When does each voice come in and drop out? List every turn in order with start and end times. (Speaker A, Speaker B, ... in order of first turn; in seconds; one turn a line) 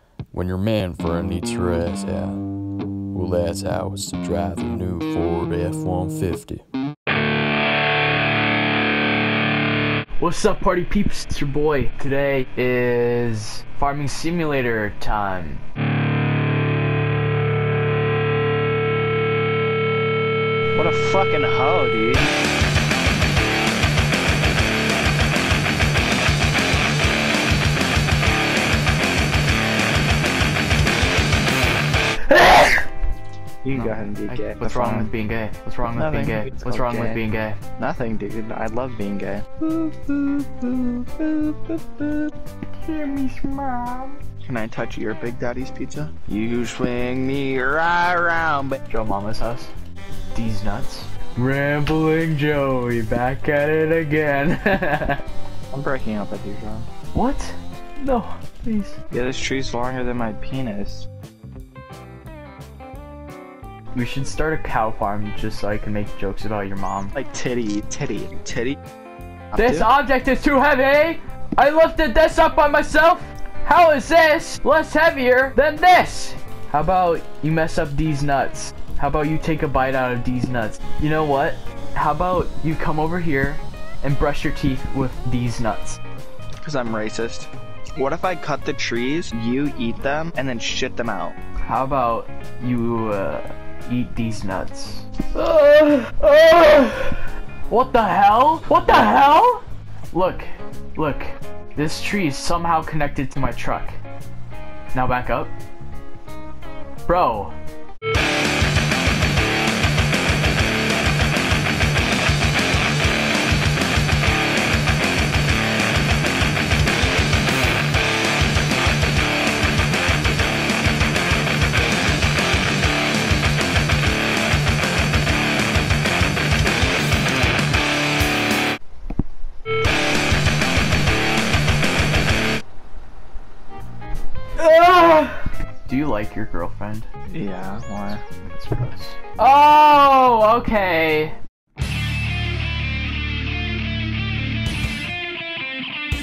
Speaker A: 0.3-2.4
Speaker A: 3.1-6.7
Speaker B: 10.2-15.6
Speaker C: 20.8-22.3
Speaker B: 32.3-32.8
Speaker C: 33.6-35.1
Speaker B: 33.7-37.6
Speaker C: 36.0-37.2
Speaker C: 37.8-41.7
Speaker B: 40.0-41.5
Speaker B: 42.8-44.2
Speaker C: 44.4-48.8
Speaker B: 48.9-49.7
Speaker B: 50.3-55.2
Speaker C: 55.7-56.9
Speaker B: 57.1-59.0
Speaker C: 59.1-61.1
Speaker B: 63.9-67.1
Speaker C: 67.2-68.8
Speaker C: 69.5-69.9
Speaker B: 69.6-86.0
Speaker C: 86.6-91.4
Speaker B: 91.6-104.0
Speaker B: 104.9-105.5
Speaker B: 107.1-107.5
Speaker B: 134.6-137.1
Speaker C: 137.3-138.2
Speaker B: 138.4-141.4